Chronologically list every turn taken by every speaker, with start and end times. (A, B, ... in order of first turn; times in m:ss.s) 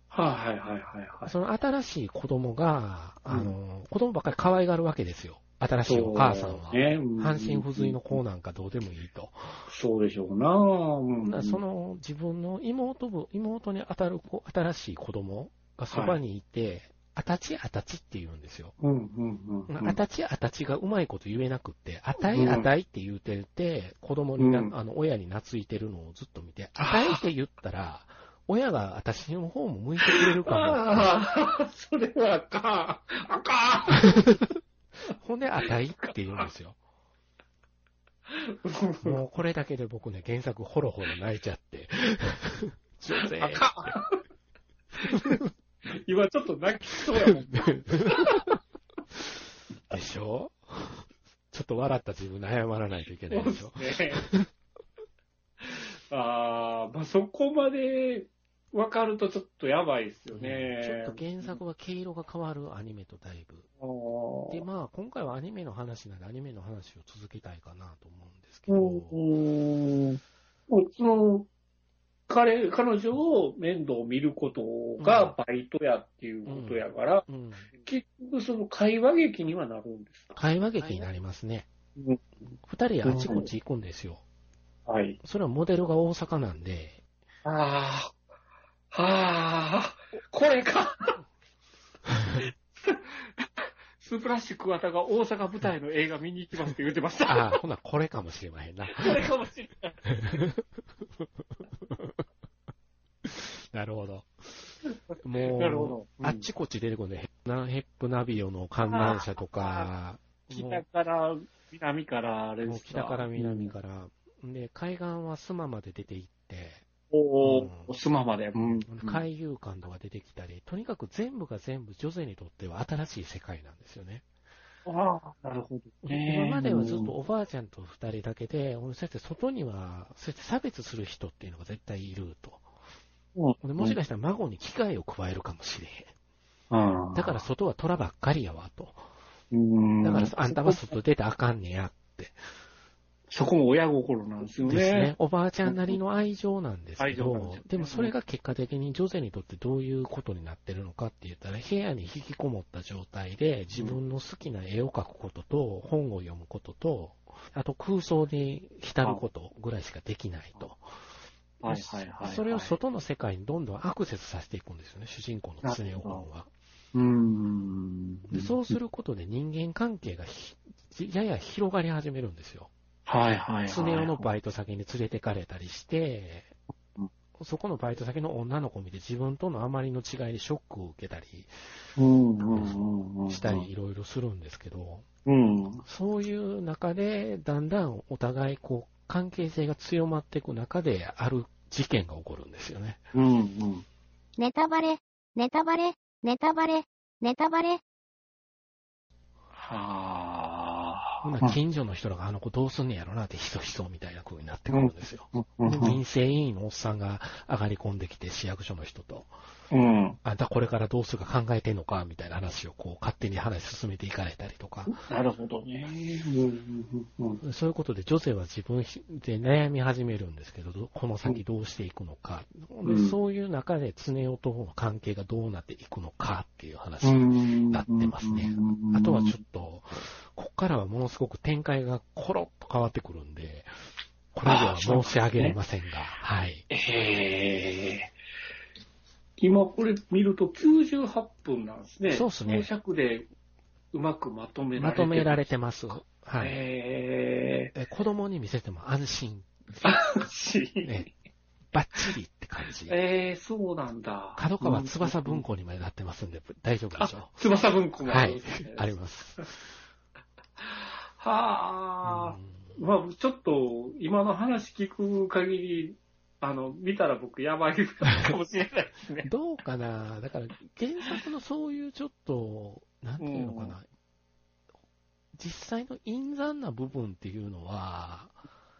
0:00.1-0:01.3 A
0:01.2-0:09.7 B
0:03.3-0:03.5 A
0:05.8-0:08.2 A
0:09.7-0:11.6 A
0:11.2-0:18.7 B
0:15.9-0:16.2 A
0:18.8-0:20.0 A
0:19.7-0:31.2 B
0:22.3-0:22.7 A
0:24.4-0:24.7 A
0:26.8-0:27.2 A
0:30.0-0:34.2 A
0:35.1-0:36.8 B
0:38.3-0:39.2 A
0:39.0-0:44.0 B
0:43.2-0:44.2 A
0:45.0-0:45.4 A
0:45.9-0:48.5 A
0:47.6-0:48.6 B
0:49.9-0:54.5 B
0:53.3-0:54.3 A
0:55.6-1:01.6 A
1:00.3-1:03.7 B
1:03.8-1:04.6 A
1:04.5-1:09.2 B
1:08.7-1:11.5 A
1:12.3-1:21.1 A
1:15.0-1:15.4 B
1:16.4-1:17.7 B
1:20.3-1:21.7 B
1:22.0-1:22.5 A
1:22.6-1:24.2 B
1:23.0-1:23.5 A
1:24.9-1:25.2 A
1:25.2-1:27.0 B
1:27.4-1:28.1 A
1:28.9-1:31.2 A
1:32.4-1:33.4 A
1:34.0-1:37.6 A
1:37.3-1:39.2 B
1:38.9-1:40.4 A
1:40.1-1:42.2 B
1:43.2-1:50.8 B
1:45.5-1:46.5 A
1:48.9-1:49.9 A
1:50.5-1:53.7 A
1:52.6-1:56.8 B
1:57.1-1:59.2 A
1:57.4-1:57.9 B
1:58.8-2:04.2 B
2:04.8-2:07.1 A
2:06.0-2:12.6 B
2:13.4-2:14.0 A
2:13.6-2:16.1 B
2:16.7-2:17.4 A
2:17.1-2:19.0 B
2:19.5-2:20.9 A
2:20.0-2:22.4 B
2:23.3-2:25.1 A
2:24.6-2:40.9 B
2:25.6-2:26.0 A
2:27.0-2:28.1 A
2:33.7-2:34.0 A
2:41.6-2:42.8 A
2:41.6-2:46.5 B
2:45.6-2:46.2 A
2:46.9-2:48.8 A
2:48.3-2:52.7 B
2:53.1-2:54.3 A
2:53.7-2:56.5 B
2:57.4-3:01.6 B
3:02.0-3:03.7 A
3:02.5-3:05.0 B
3:05.2-3:05.8 A
3:05.8-3:13.0 B
3:13.1-3:13.8 A
3:14.4-3:17.8 C
3:19.5-3:21.6 A
3:21.2-3:29.3 B
3:24.7-3:26.0 A
3:29.7-3:30.2 A
3:30.2-3:35.0 B
3:34.9-3:37.4 A
3:37.4-3:53.7 B
3:42.8-3:43.2 A
3:47.0-3:49.4 A
3:54.3-3:56.6 B
3:54.4-3:55.6 A
3:56.7-3:58.1 A
3:59.4-4:03.3 A
4:02.0-4:02.7 B
4:03.9-4:05.5 A
4:04.8-4:06.6 B
4:06.4-4:07.7 A
4:07.7-4:09.5 B
4:09.8-4:11.1 A
4:11.7-4:13.0 B
4:12.9-4:15.4 A
4:14.4-4:17.4 B
4:17.0-4:18.9 A
4:18.0-4:19.6 B
4:20.6-4:29.3 A
4:22.0-4:22.8 B
4:29.2-4:33.9 B
4:33.2-4:33.8 A
4:35.3-4:38.4 B